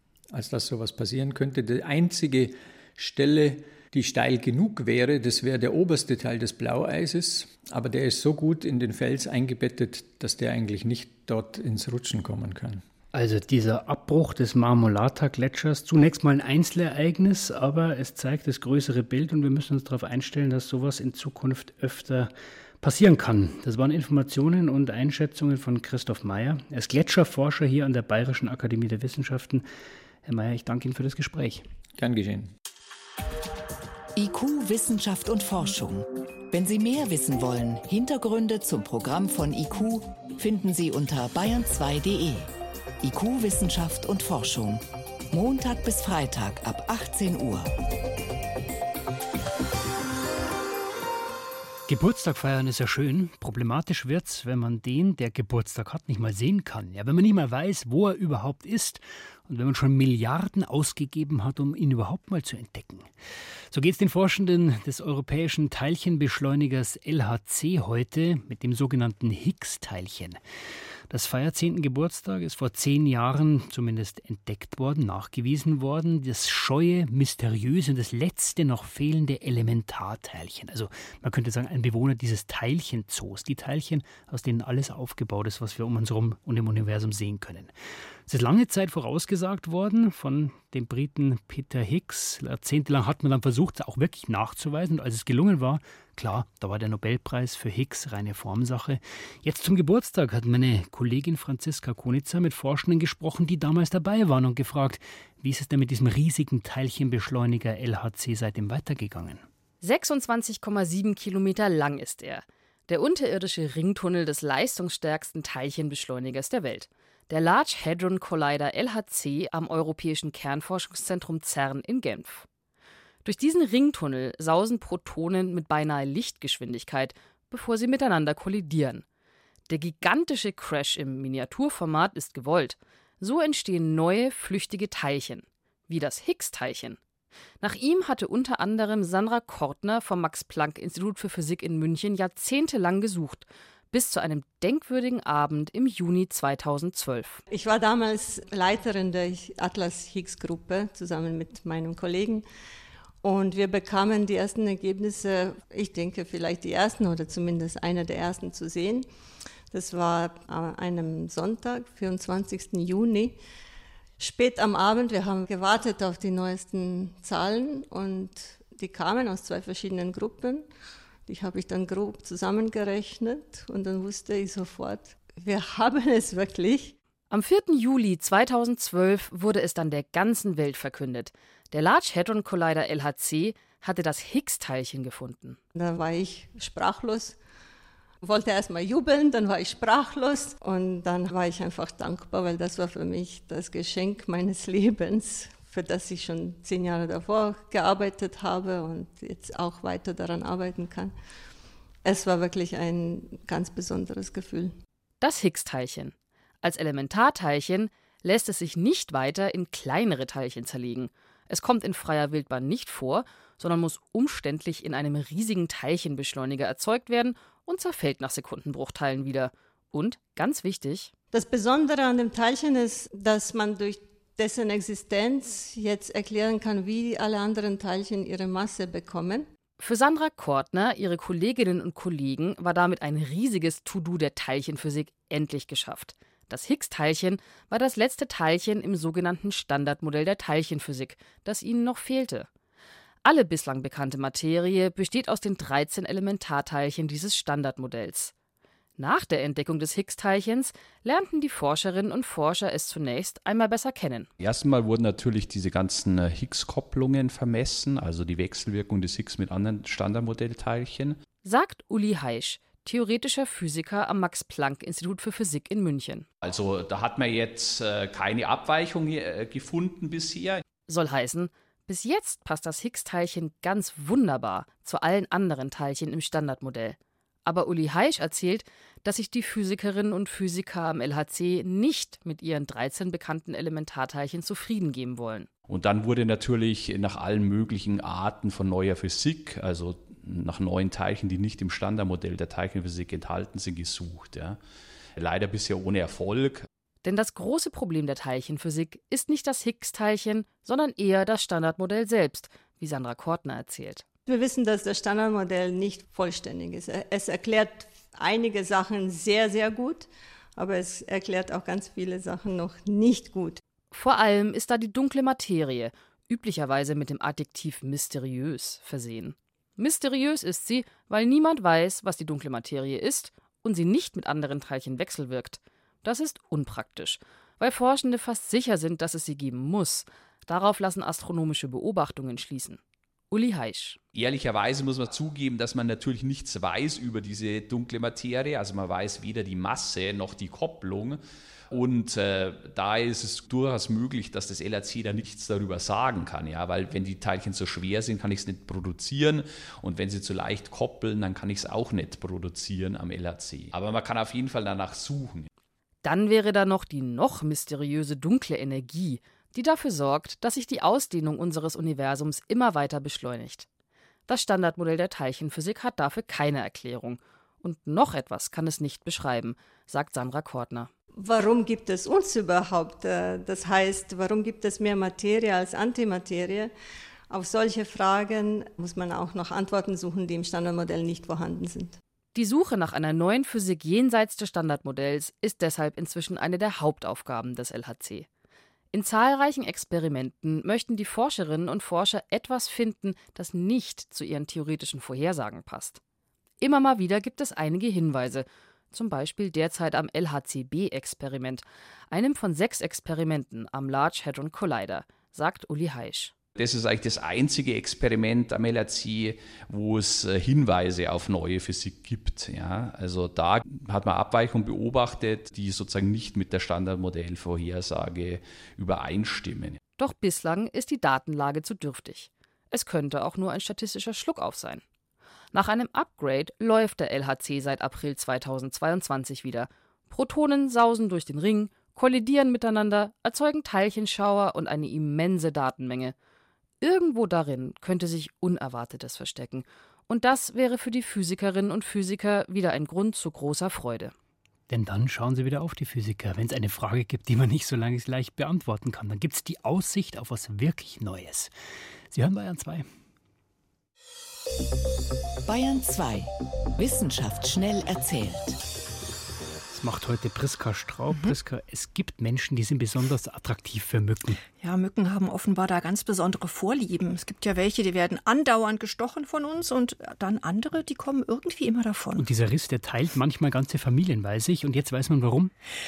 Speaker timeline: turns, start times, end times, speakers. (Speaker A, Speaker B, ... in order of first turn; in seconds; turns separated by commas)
Speaker A: 0.3-12.8, Speaker B: 13.1-29.6, Speaker B: 30.2-31.6, Speaker A: 32.0-32.5, Speaker C: 34.1-47.7, Speaker B: 51.9-63.1, Speaker B: 63.7-70.4, Speaker B: 71.1-87.7, Speaker B: 88.2-109.4, Speaker D: 109.8-122.5, Speaker D: 123.2-129.0, Speaker D: 129.7-137.0, Speaker D: 137.6-147.4, Speaker E: 147.5-152.4, Speaker E: 153.2-159.1, Speaker E: 159.7-163.4, Speaker E: 164.2-170.7, Speaker E: 171.3-176.9, Speaker D: 177.3-185.6, Speaker E: 185.7-187.4, Speaker E: 188.2-201.1, Speaker E: 202.0-204.8, Speaker D: 205.2-221.1, Speaker E: 221.3-229.5, Speaker D: 229.8-242.5, Speaker D: 243.2-248.3, Speaker D: 249.0-254.3, Speaker F: 254.4-261.2, Speaker D: 261.4-266.2, Speaker F: 266.4-270.6, Speaker D: 270.9-285.5, Speaker F: 285.7-294.6, Speaker F: 295.1-296.7, Speaker D: 297.0-304.0, Speaker E: 304.3-313.6, Speaker D: 313.9-332.8, Speaker D: 333.3-334.0, Speaker F: 334.1-341.2, Speaker F: 341.7-355.5, Speaker D: 356.0-363.6, Speaker D: 364.3-370.9, Speaker E: 371.1-376.7, Speaker E: 377.3-382.0, Speaker D: 382.3-388.3, Speaker D: 388.9-396.0, Speaker D: 396.6-406.3, Speaker F: 406.6-419.8, Speaker D: 420.0-424.8, Speaker D: 425.5-436.1, Speaker D: 436.8-444.1, Speaker B: 444.7-451.5, Speaker B: 452.1-452.9, Speaker C: 455.4-458.6, Speaker B: 459.7-464.4, Speaker G: 464.6-472.2, Speaker B: 472.2-475.5